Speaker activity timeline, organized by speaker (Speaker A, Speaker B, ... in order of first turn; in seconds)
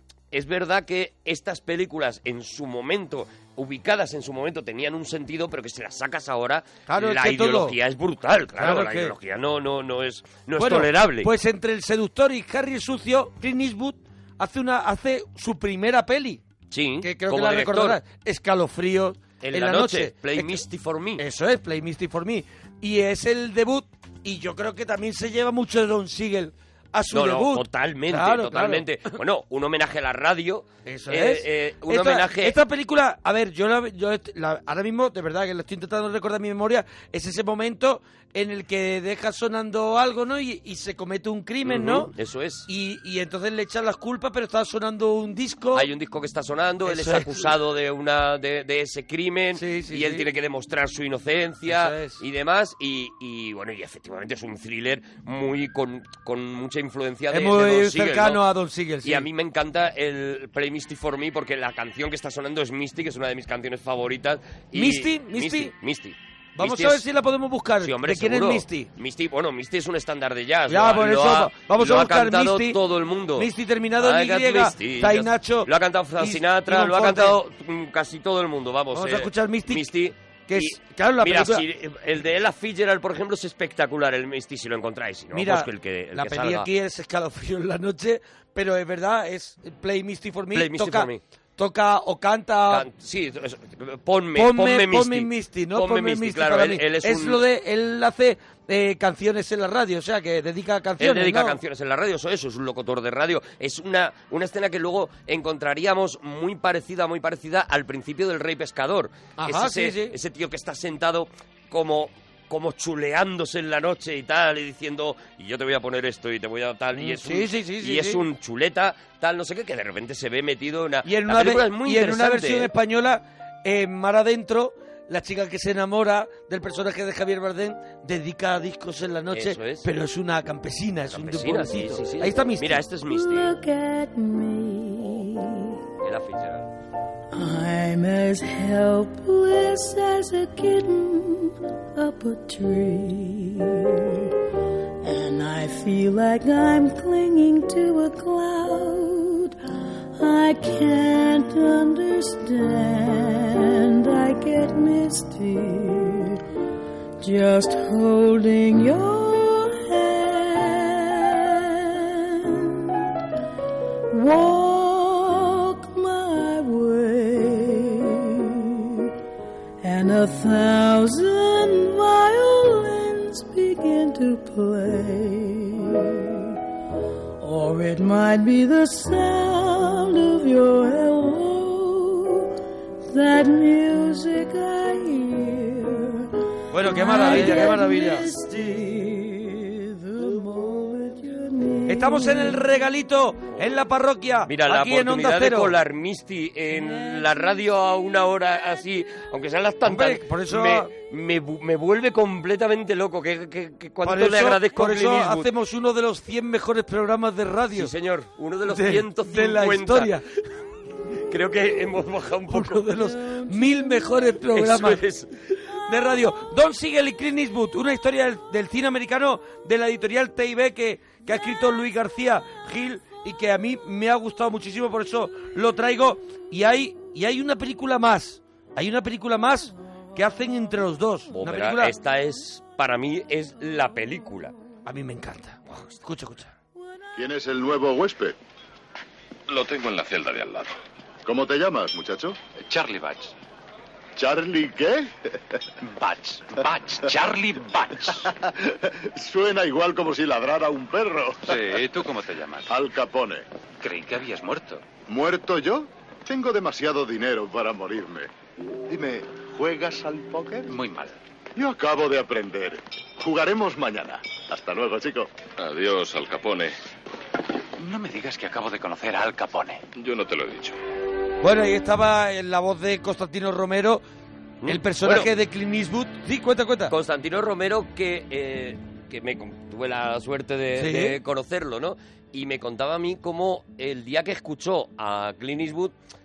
Speaker A: 0.3-11.3, 16.7-18.0, 19.4-21.2, 27.1-32.6, 41.6-42.7, 45.7-58.4, 59.0-67.1, 67.8-86.7, 90.5-91.2, 92.7-97.4, 101.0-122.7, 129.3-129.9, 131.1-133.6, 136.0-136.7, 194.5-205.5, 207.7-210.2, 211.3-212.9, 214.5-215.3, 231.3-234.6, 274.6-275.3, 276.9-285.9
Speaker B: 6.9-7.8, 8.6-9.1, 10.6-16.4, 17.0-20.6, 21.2-29.0, 30.9-42.1, 42.7-45.9, 46.9-47.5, 49.6-50.3, 51.7-52.2, 57.3-59.2, 64.7-65.7, 66.6-68.9, 70.7-72.8, 73.4-77.4, 78.9-79.9, 80.5-81.7, 85.3-92.9, 94.4-101.6, 109.4-110.2, 117.0-118.2, 121.0-132.8, 186.7-188.3, 191.9-195.7, 199.8-200.9, 204.0-207.9, 208.7-210.2, 212.5-215.0, 215.9-231.9, 234.9-236.5, 271.4-274.0, 274.7-276.9, 280.8-281.2
Speaker C: 133.1-135.8, 137.3-144.3, 145.0-149.6, 150.2-156.4, 157.2-163.1, 164.1-169.1, 169.8-176.5, 177.4-182.5, 183.1-192.7, 213.3-214.1
Speaker D: 237.2-238.4, 239.5-240.6, 241.2-242.5, 244.2-245.1, 247.0-247.3, 249.2-251.9, 252.7-253.5, 255.0-258.3, 258.9-260.9, 261.6-266.7
Speaker E: 239.5-240.6, 242.6-243.3, 246.0-248.2, 251.5-252.7, 253.8-254.8, 260.7-261.1, 265.6-266.5, 267.8-270.8